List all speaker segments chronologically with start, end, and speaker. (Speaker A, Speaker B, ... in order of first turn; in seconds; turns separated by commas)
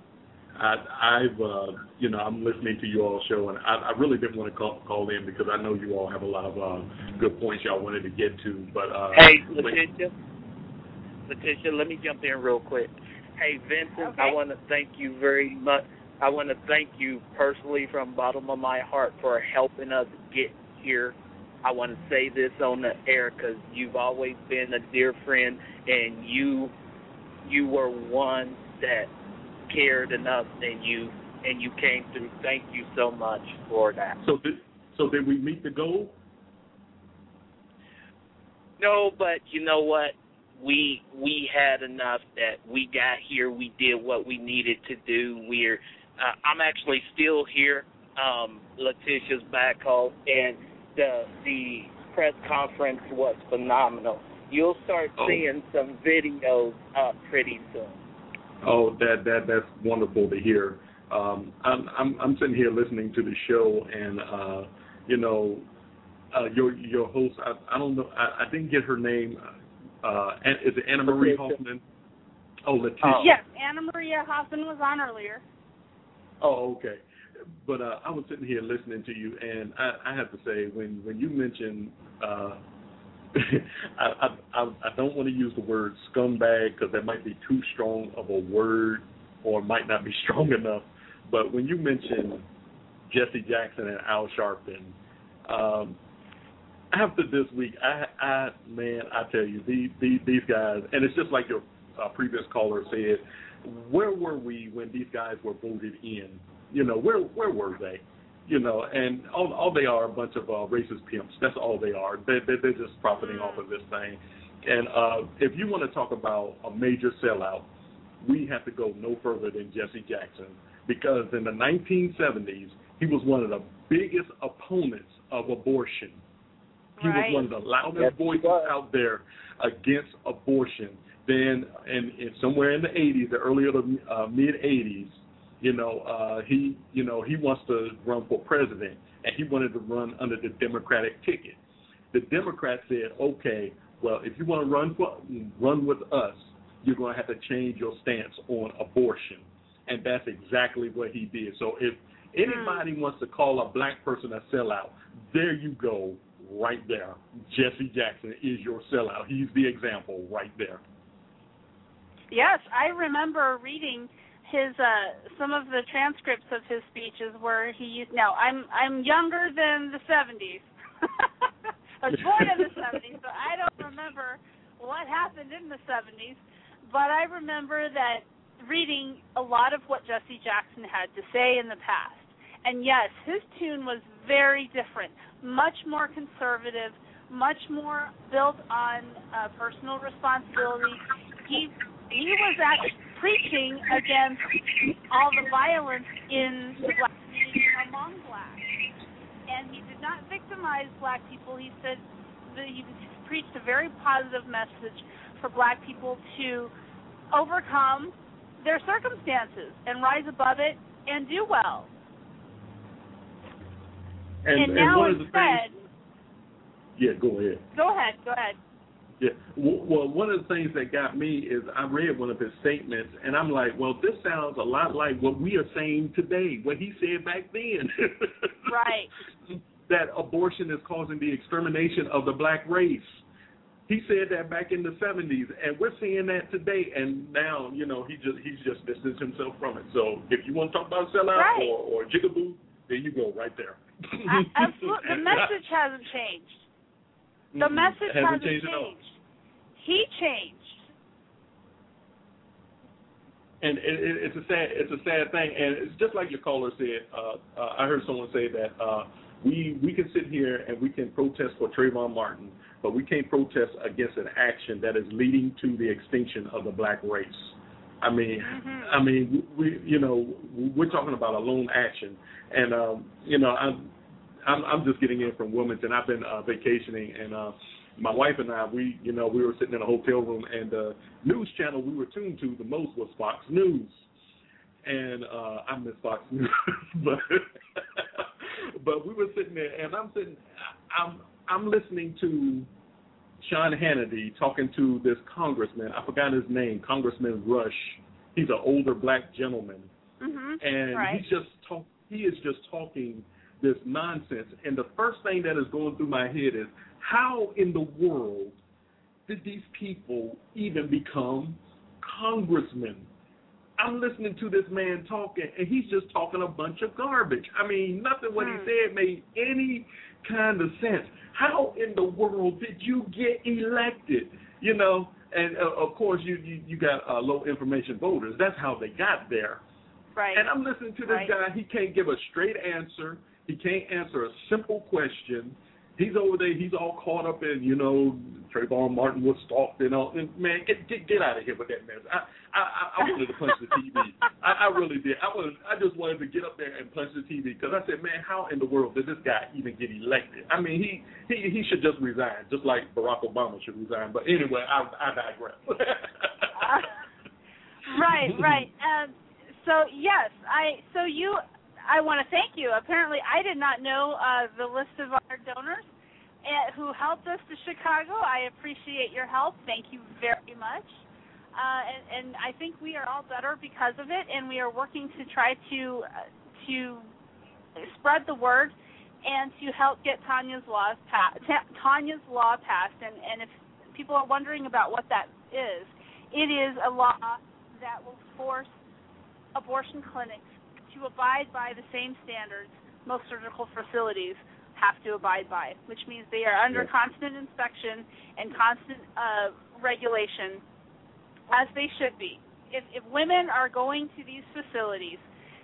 Speaker A: 0.6-9.8, Speaker B: 9.1-10.1, Speaker B: 11.3-26.7, Speaker C: 14.0-14.4, Speaker B: 27.4-29.1, Speaker B: 29.7-34.2, Speaker A: 34.2-36.1, Speaker B: 38.8-58.0, Speaker A: 55.2-55.5, Speaker A: 58.6-65.7, Speaker A: 66.3-69.5, Speaker A: 70.0-71.8, Speaker B: 71.0-71.6, Speaker A: 72.7-73.3, Speaker B: 73.0-73.3, Speaker C: 73.2-75.4, Speaker A: 76.4-77.0, Speaker A: 77.6-82.6, Speaker A: 83.3-92.5, Speaker A: 93.1-95.0, Speaker A: 95.5-96.0, Speaker A: 96.9-117.7, Speaker C: 113.2-113.6, Speaker A: 118.2-126.2, Speaker C: 127.0-127.5, Speaker A: 127.0-141.6, Speaker B: 128.0-128.7, Speaker A: 142.1-160.8, Speaker C: 152.5-152.8, Speaker C: 162.3-171.5, Speaker C: 172.0-194.5, Speaker A: 172.2-172.7, Speaker C: 195.1-198.7, Speaker C: 199.5-206.7, Speaker C: 207.3-211.9, Speaker A: 214.4-215.7, Speaker C: 214.6-215.8, Speaker A: 217.0-217.7, Speaker C: 217.8-218.6, Speaker A: 219.2-228.8, Speaker C: 228.7-229.1, Speaker A: 229.9-233.2, Speaker A: 233.9-245.6, Speaker C: 241.3-241.7, Speaker C: 244.3-246.7, Speaker A: 247.5-249.0, Speaker C: 247.6-249.2, Speaker C: 249.8-250.8, Speaker A: 253.6-284.1, Speaker C: 268.4-269.0, Speaker A: 284.8-288.2, Speaker A: 288.8-292.7, Speaker A: 293.4-299.9, Speaker C: 300.2-301.2, Speaker A: 300.6-308.6, Speaker A: 309.3-313.1, Speaker A: 313.8-329.6, Speaker C: 318.4-318.7, Speaker C: 330.2-330.5, Speaker A: 330.3-356.9, Speaker C: 331.1-331.3, Speaker C: 356.6-356.9, Speaker C: 357.9-365.9, Speaker A: 357.9-358.7, Speaker C: 366.4-371.0, Speaker C: 371.6-377.1, Speaker C: 377.8-388.8, Speaker C: 389.6-400.6, Speaker C: 401.5-405.2